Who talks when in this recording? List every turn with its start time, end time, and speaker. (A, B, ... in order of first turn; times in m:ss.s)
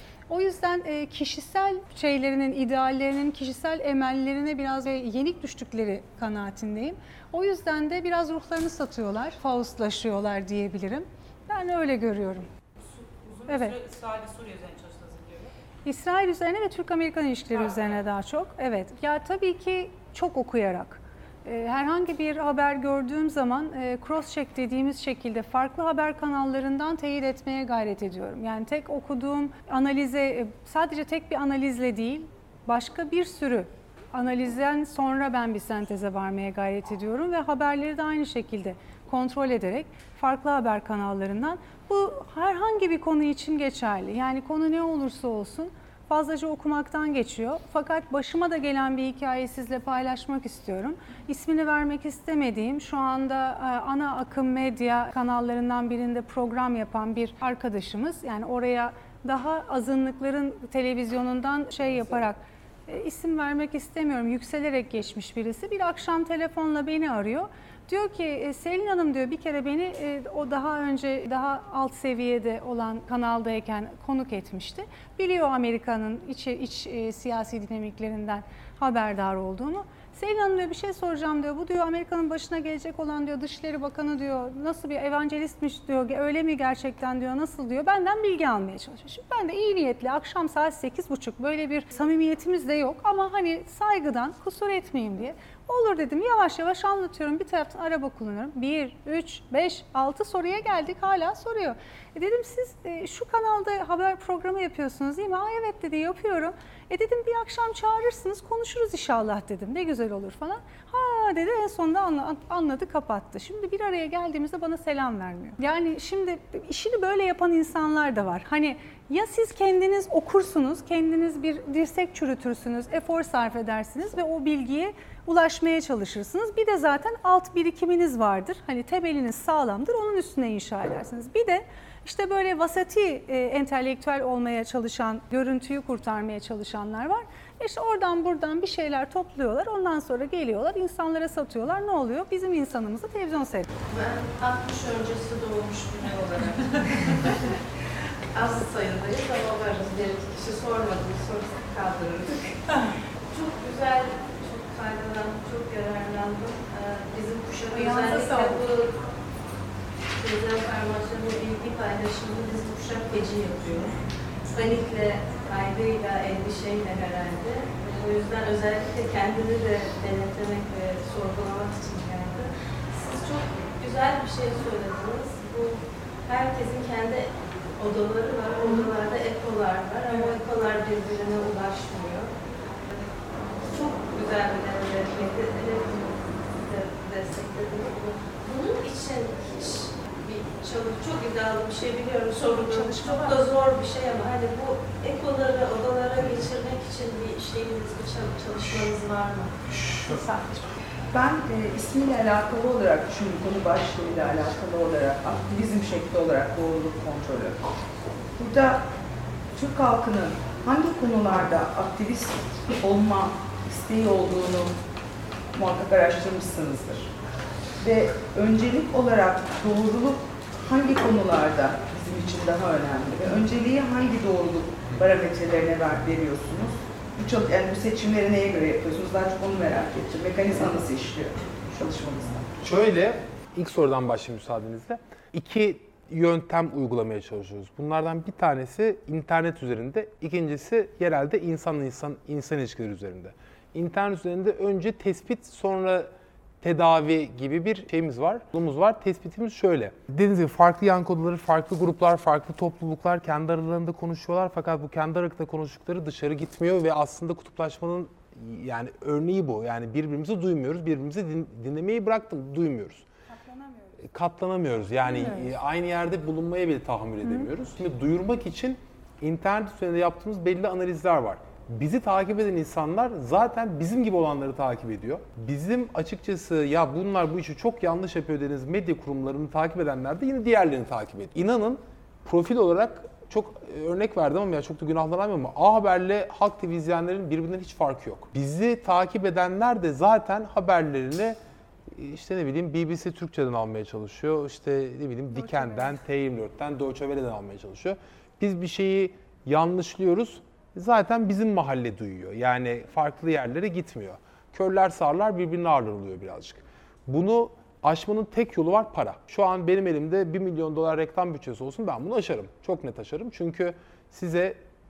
0:00.3-0:12.5 A
0:13.0-0:15.5 B
0:13.5-0:13.8 A
0:15.8-2:23.7 A
2:23.9-2:27.6 C
2:28.3-2:32.6 C
2:33.3-2:39.0 C
2:37.7-2:38.6 A
2:40.2-3:02.3 C
3:00.1-3:00.4 A
3:03.6-3:19.6 C
3:12.5-3:13.4 A
3:20.0-3:20.6 A
3:21.1-3:27.6 D
3:28.4-3:28.8 D
3:29.5-3:34.8 D
3:35.5-3:37.1 D
3:37.8-3:52.5 D
3:52.6-4:06.1 E
4:06.6-4:23.0 E
4:23.3-4:24.0 A
4:24.0-4:51.4 E
4:25.0-4:25.5 A
4:51.9-5:14.6 E
4:55.3-4:55.9 A